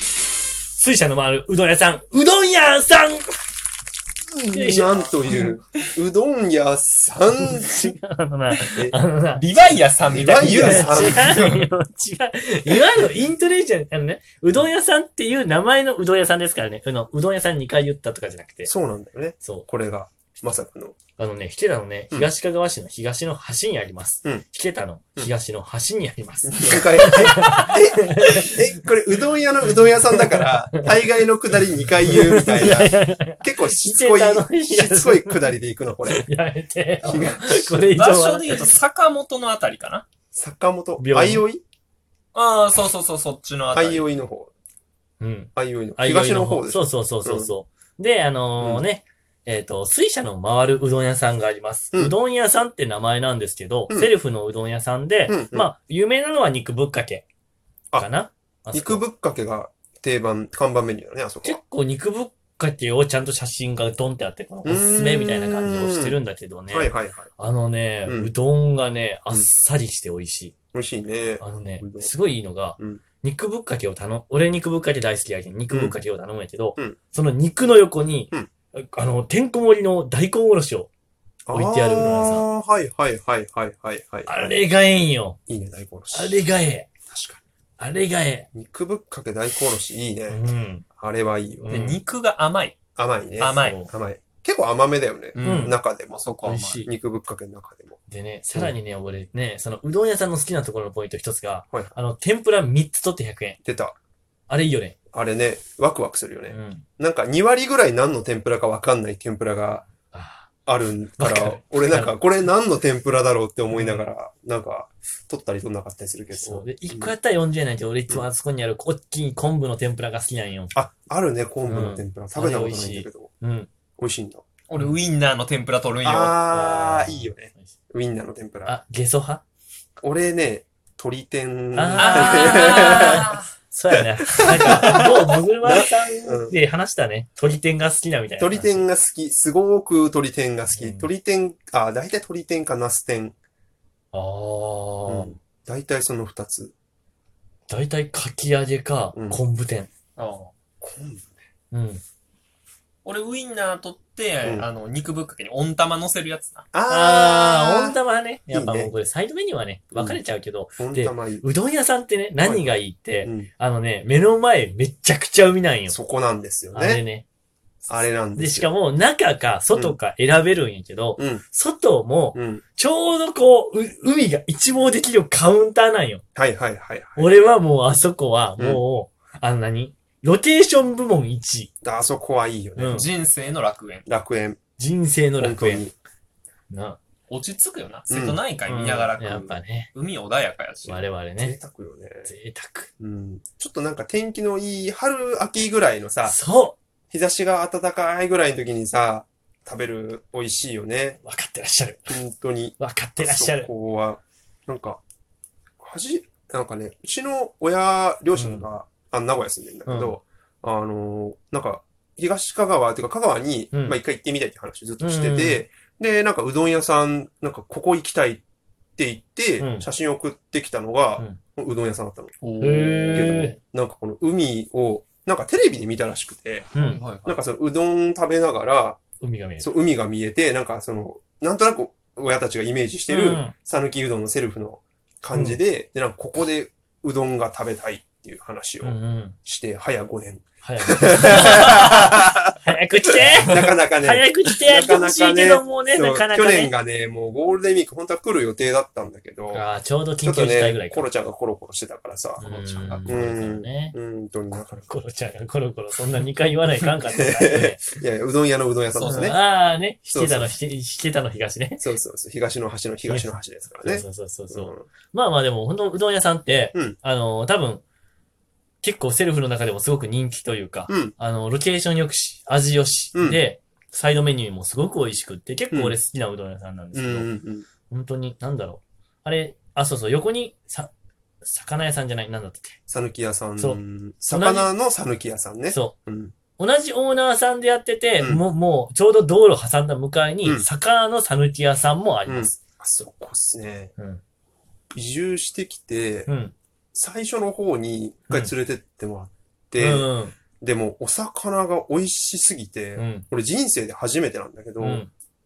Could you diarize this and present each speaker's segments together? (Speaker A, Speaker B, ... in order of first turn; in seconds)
Speaker A: 0.7-3.3, 4.5-5.5, 7.3-9.4, 10.3-18.7, 19.4-19.7, 21.2-28.6, 29.8-31.0, 32.0-35.5, 36.1-38.7, 41.0-41.5, 45.2-57.2, 58.0-59.0, 61.4-70.5, 71.4-80.9, 81.5-82.5, 84.2-85.4, 86.1-86.9, 87.8-88.5, 90.3-90.8, 91.6-92.0, 93.6-93.9, 95.4-95.8, 96.4-96.9, 98.1-103.6, 104.5-104.9, 106.5-106.8, 110.1-110.5, 111.2-112.2, 113.7-114.0, 116.3-120.7, 121.7-123.7, 126.5-127.7, 128.6-129.4, 131.7-138.8, 140.7-141.1, 144.1-145.3, 147.7-149.9, 151.7-152.0, 156.9-165.9, 166.7-167.2, 167.9-176.2, 177.2-181.7, 182.8-183.1, 184.8-185.9, 186.7-187.0, 188.7-189.9, 190.8-191.6, 192.2-192.9, 196.2-196.8, 201.2-202.2, 202.8-203.7, 208.3-208.7, 209.8-210.2, 213.7-214.0, 215.0-215.6, 219.6-219.9, 222.6-223.6, 226.7-227.0, 229.2-229.7, 233.1-233.5, 235.3-235.6, 238.8-239.3, 240.6-246.7, 249.5-251.1, 252.4-253.9, 254.5-257.9, 259.0-261.9, 263.0-267.8, 268.8-277.3, 277.9-280.9, 281.4-282.8, 283.6-284.7, 285.7-285.9, 286.6-292.6, 296.3-296.5, 299.8-300.4, 302.9-303.2, 304.8-305.1
Speaker B: 4.3-8.0, 10.1-11.4, 18.6-21.0, 26.5-36.3, 37.0-37.8, 40.3-41.6, 43.7-44.5, 45.5-47.5, 48.6-48.8, 55.3-55.7, 58.7-61.6, 64.6-66.2, 66.7-67.3, 68.0-68.3, 70.7-72.1, 72.8-73.0, 75.7-75.9, 81.5-84.3, 85.5-86.4, 87.1-87.4, 88.5-90.4, 90.9-92.0, 93.0-98.0, 103.6-104.0, 105.1-109.9, 110.7-117.1, 120.7-123.3, 124.0-124.4, 126.0-128.8, 130.0-133.3, 133.9-136.6, 138.4-143.3, 145.1-146.7, 149.1-149.4, 150.8-151.4, 154.4-154.7, 156.7-158.9, 159.9-160.2, 160.8-161.4, 162.4-163.5, 165.9-167.0, 167.9-168.7, 171.2-171.4, 172.3-172.6, 176.3-177.3, 181.8-183.0, 184.1-184.6, 185.4-185.9, 188.1-188.4, 191.4-192.3, 193.0-196.4, 197.1-201.2, 202.1-205.0, 205.8-218.4, 219.0-222.3, 223.1-229.0, 229.6-242.6, 243.1-249.6, 250.2-254.8, 257.1-259.4, 260.1-260.5, 261.8-264.9, 270.9-271.1, 273.1-273.4, 275.7-276.0, 276.9-277.6, 282.9-286.3, 292.2-293.9, 294.9-296.3, 296.9-305.0
Speaker C: 9.3-11.7, 37.9-40.0, 42.3-44.1, 91.7-92.8, 93.4-93.8, 95.3-96.8, 124.7-126.4, 131.9-133.5, 134.5-135.1, 150.2-150.5, 153.0-156.6, 182.9-184.1, 187.3-191.1, 222.4-223.4, 226.8-227.4, 258.9-259.3